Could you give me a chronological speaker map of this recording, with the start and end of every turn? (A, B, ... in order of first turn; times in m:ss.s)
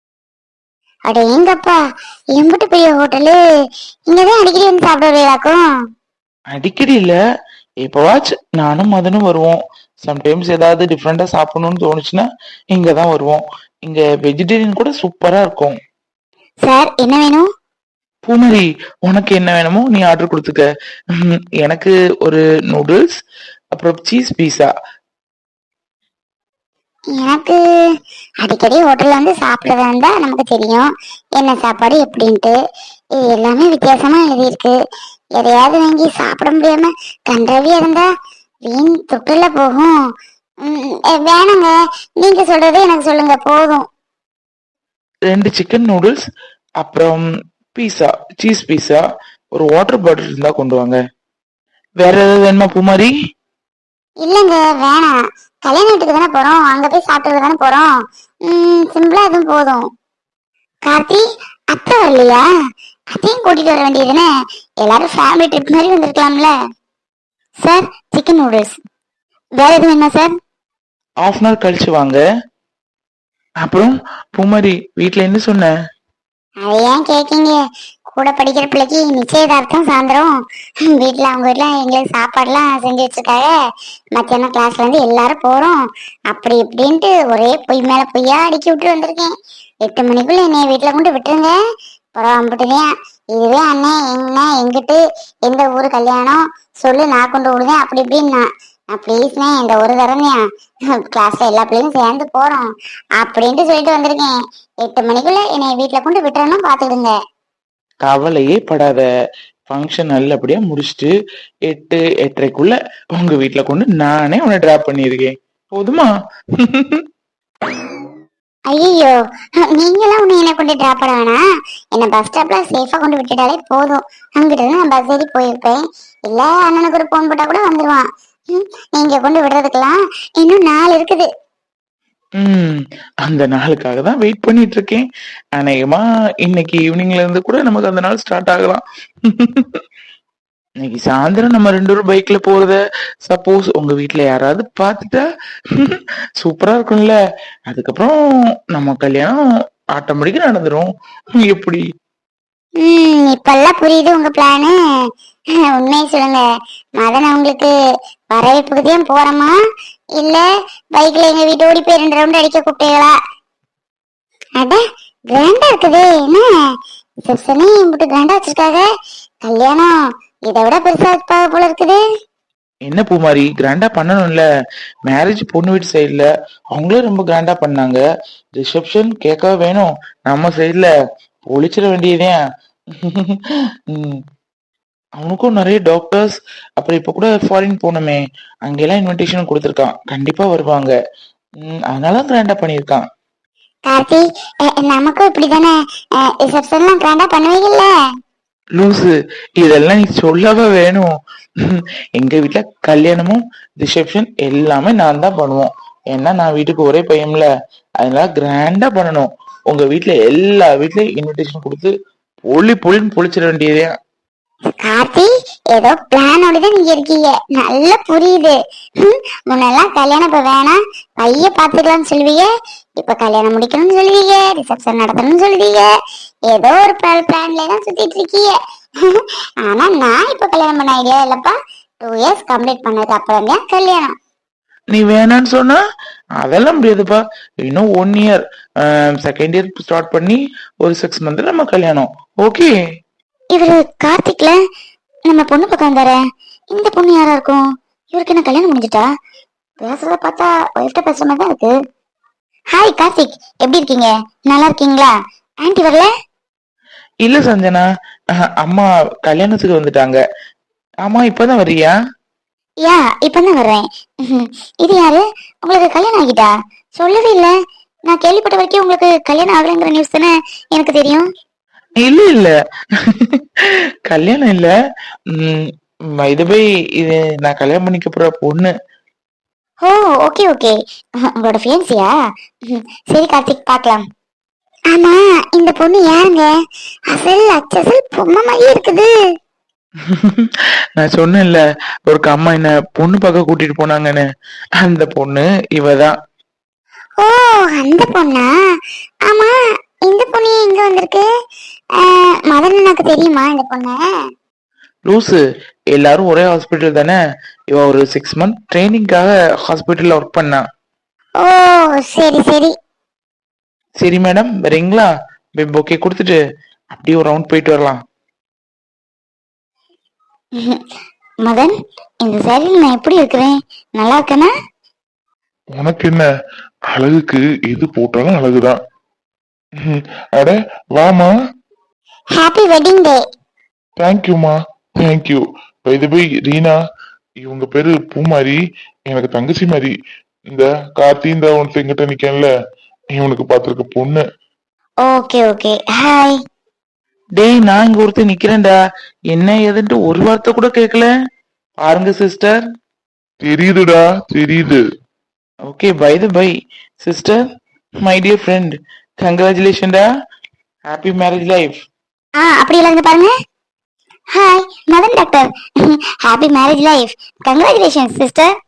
0:01.1-0:01.8 A
0:02.3-0:03.4 A
0:04.1-0:05.6 A
0:06.5-0:07.2 B
0:07.8-0:15.7 B
0:16.6-0:17.5 A
0:18.2-0:20.6 B
0:21.2-0:23.1 B
0:23.7-0:24.7 B
0:27.1-0:27.6 A
0:28.4-0:30.9 A
0:31.4-0:32.5 A
0:33.2-0:34.8 A
0:35.4-0:38.1 A
0:38.6-0:39.9 A
0:40.6-0:43.8 A
0:45.3-0:46.2 B
0:46.8-0:49.0 B
0:49.6-0:51.0 B
0:52.0-0:53.1 B
0:54.2-0:55.1 A
0:55.6-0:57.9 A
0:58.5-0:59.8 A
1:00.9-1:02.4 A
1:03.1-1:04.3 A
1:04.8-1:06.5 A
1:07.6-1:08.7 A
1:09.6-1:10.3 A
1:11.2-1:12.2 B
1:13.6-1:15.7 B
1:16.6-1:17.6 A
1:18.1-1:20.3 A
1:20.9-1:23.5 A
1:24.1-1:25.8 A
1:26.3-1:29.3 A
1:29.8-1:31.5 A
1:32.2-1:40.4 A
1:41.0-1:47.2 A
1:48.0-1:49.0 B
1:49.7-1:51.1 B
1:51.7-1:57.0 B
1:58.7-1:59.2 A
1:59.7-2:01.4 A
2:01.9-2:11.3 A
2:12.4-2:15.0 B
2:15.6-2:19.8 B
2:20.8-2:25.2 B
2:25.8-2:27.2 B
2:27.7-2:28.1 B
2:28.7-2:29.4 B
2:29.9-2:30.9 B
2:31.4-2:31.8 B
2:32.8-2:34.7 A
2:35.7-2:36.4 A
2:37.0-2:37.7 A
2:38.3-2:39.5 A
2:40.2-2:43.1 A
2:45.3-2:46.5 A
2:47.2-2:48.8 A
2:49.4-2:49.9 A
2:50.5-2:52.0 A
2:52.9-2:54.4 B
2:55.1-2:58.0 B
2:58.6-3:00.9 B
3:01.5-3:02.4 B
3:03.0-3:03.4 B
3:03.9-3:04.2 B
3:05.2-3:10.9 B
3:11.6-3:13.0 B
3:13.9-3:15.7 A
3:16.4-3:17.9 A
3:18.8-3:21.1 B
3:21.6-3:27.5 B
3:28.0-3:31.9 B
3:32.5-3:33.9 B
3:34.8-3:42.5 A
3:43.0-3:45.9 A
3:46.5-3:54.1 A
3:54.9-3:55.8 B
3:56.4-4:02.7 B
4:03.5-4:04.5 A
4:05.3-4:06.2 A
4:06.7-4:07.6 A
4:08.1-4:09.1 A
4:09.8-4:11.7 A
4:12.7-4:16.1 A
4:17.2-4:17.8 B
4:18.4-4:20.2 B
4:21.0-4:21.9 B
4:22.8-4:27.5 A
4:28.1-4:31.2 A
4:32.0-4:32.5 B
4:33.0-4:34.7 B
4:35.3-4:35.6 B
4:36.2-4:38.7 B
4:39.8-4:42.1 A
4:42.7-4:44.0 A
4:44.9-4:46.5 A
4:47.1-4:49.1 A
4:50.0-4:54.2 B
4:54.8-4:56.1 B
4:57.2-4:58.5 A
4:59.3-4:59.5 A
5:00.1-5:01.2 A
5:02.0-5:04.0 A
5:05.1-5:05.4 B
5:05.9-5:07.2 B
5:07.7-5:10.6 B
5:11.4-5:12.7 A
5:14.0-5:16.4 B
5:16.9-5:18.0 B
5:21.4-5:24.5 A
5:25.7-5:26.3 C
5:26.9-5:28.8 C
5:29.8-5:31.3 C
5:32.4-5:33.2 A
5:34.0-5:36.8 C
5:37.4-5:38.6 C
5:39.1-5:39.9 C
5:40.5-5:42.5 C
5:43.1-5:44.2 C
5:45.0-5:46.4 A
5:47.4-5:48.7 B
5:49.3-5:51.1 B
5:51.8-5:52.6 B
5:53.4-5:54.8 C
5:55.7-5:57.4 B
5:58.0-6:00.0 B
6:00.9-6:01.8 B
6:02.4-6:03.3 A
6:04.3-6:08.5 A